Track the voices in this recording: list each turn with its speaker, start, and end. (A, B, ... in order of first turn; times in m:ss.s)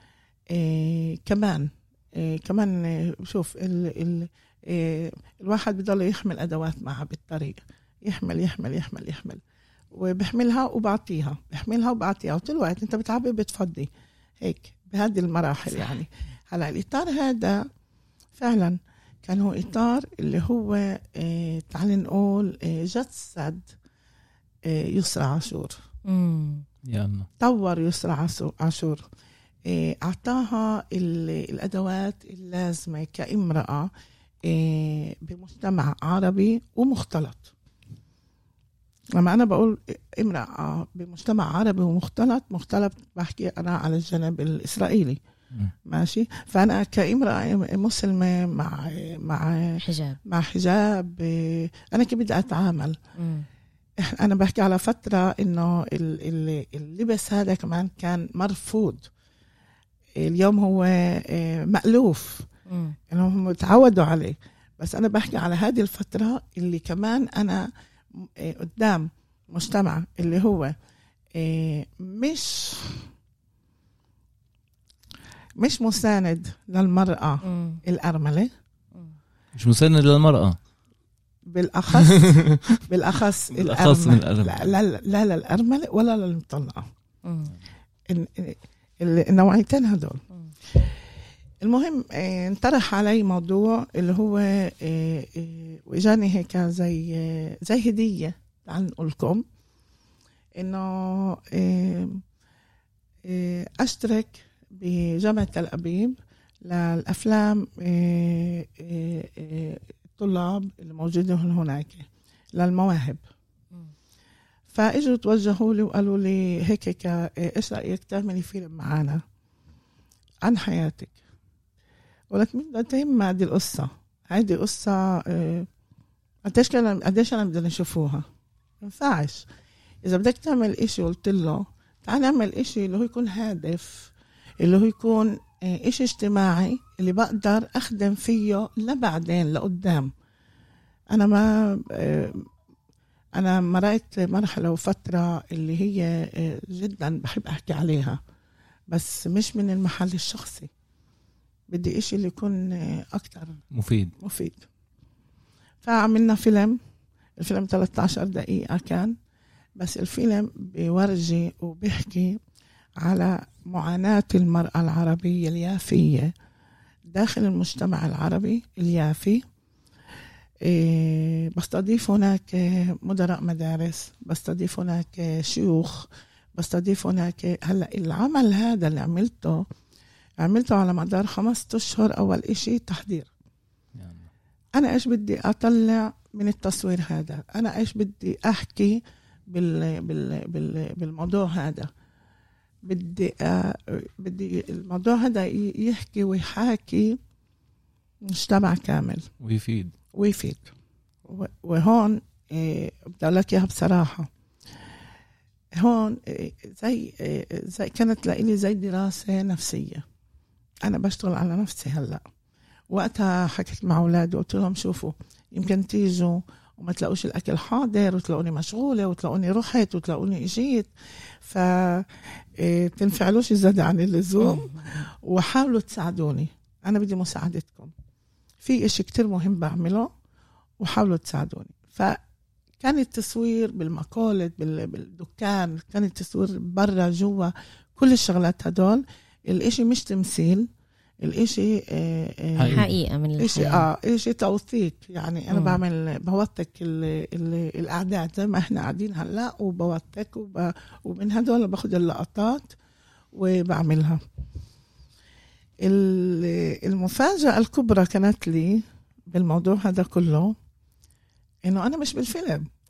0:00.5-0:17.6 A
0:15.7-0:16.0 B
0:18.4-0:23.7 A
0:24.6-0:25.8 A
0:26.1-0:26.6 B
0:26.8-0:27.3 C
0:27.4-0:29.0 A
0:29.6-0:33.9 A
0:34.4-0:37.5 A
0:39.2-0:45.2 A
0:45.8-0:53.0 A
0:49.8-0:50.2 B
0:53.2-0:53.5 B
0:54.0-0:59.1 A
1:00.2-1:02.5 A
1:02.7-1:03.0 B
1:03.1-1:10.8 A
1:11.3-1:13.1 A
1:15.6-1:18.5 A
1:17.4-1:17.8 B
1:19.6-1:20.6 C
1:21.5-1:26.9 A
1:22.0-1:22.8 C
1:23.5-1:24.7 C
1:27.2-1:27.5 B
1:28.1-1:31.0 A
1:31.6-1:39.4 A
1:40.6-1:42.2 A
1:43.2-1:53.2 A
1:54.7-1:59.2 A
2:00.4-2:01.2 A
2:02.3-2:05.7 A
2:06.5-2:08.2 A
2:08.8-2:09.4 A
2:10.0-2:20.1 A
2:21.1-2:22.5 A
2:23.4-2:28.2 A
2:28.9-2:30.7 A
2:31.7-2:33.6 A
2:33.7-2:34.1 C
2:34.2-2:34.6 A
2:35.8-2:36.8 A
2:37.4-2:39.1 A
2:39.8-2:42.4 A
2:43.0-2:46.3 A
2:47.1-2:49.4 A
2:50.6-2:59.7 A
3:00.4-3:03.3 A
3:04.0-3:04.3 C
3:04.8-3:11.9 A
3:12.8-3:17.2 A
3:18.2-3:19.3 A
3:19.4-3:19.9 C
3:20.1-3:20.7 A
3:21.3-3:24.3 A
3:25.8-3:30.0 A
3:30.8-3:32.2 A
3:32.9-3:47.9 A
3:44.4-3:45.0 B
3:48.6-3:50.1 A
3:50.8-3:52.2 A
3:52.8-4:00.7 A
4:01.2-4:02.8 A
4:02.6-4:02.9 C
4:02.7-4:03.9 B
4:03.4-4:12.8 A
4:05.5-4:05.8 B
4:13.3-4:14.2 A
4:15.8-4:20.6 A
4:21.6-4:22.7 A